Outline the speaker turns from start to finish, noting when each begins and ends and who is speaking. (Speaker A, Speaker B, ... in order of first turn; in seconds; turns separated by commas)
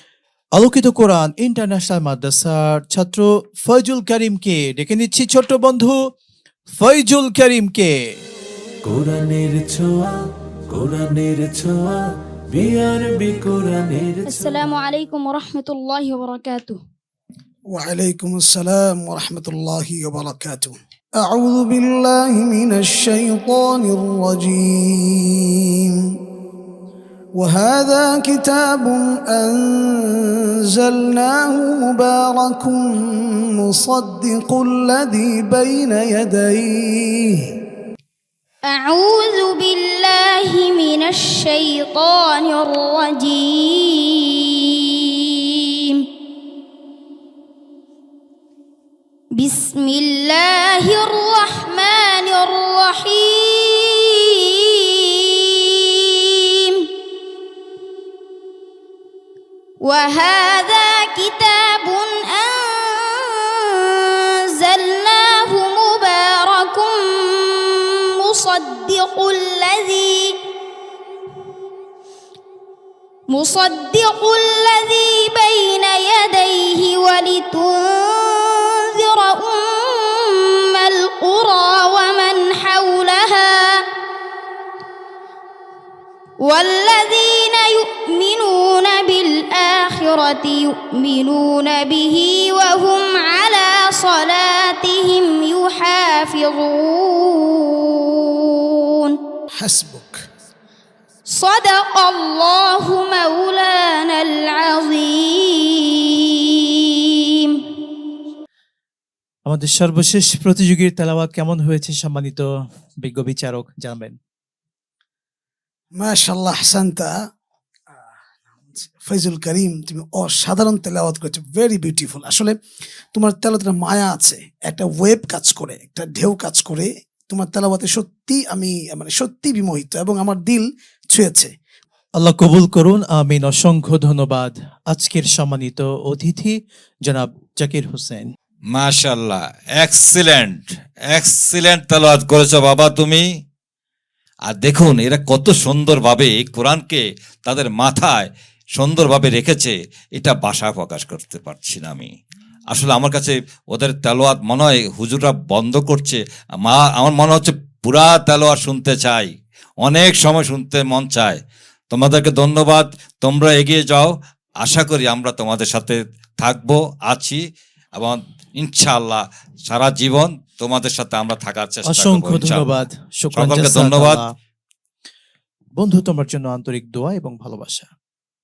Speaker A: 0.6-6.0, Speaker A: 6.8-7.9, Speaker B: 8.8-14.5, Speaker C: 14.3-16.8, Speaker D: 17.7-26.0, Speaker D: 27.4-37.4, Speaker C: 38.7-46.0, Speaker C: 49.4-56.9, Speaker C: 59.8-70.4, Speaker C: 73.3-83.8, Speaker C: 86.4-99.2, Speaker D: 99.5-100.2, Speaker C: 101.3-107.6, Speaker A: 109.5-112.5, Speaker A: 113.0-114.2, Speaker D: 116.0-117.1, Speaker D: 118.7-122.6, Speaker D: 123.1-131.5, Speaker A: 132.2-138.3, Speaker E: 138.7-143.3, Speaker E: 144.5-152.1, Speaker E: 152.7-161.4, Speaker E: 161.9-167.4, Speaker E: 167.9-172.7, Speaker A: 171.9-174.2, Speaker E: 173.3-174.2, Speaker A: 175.8-177.9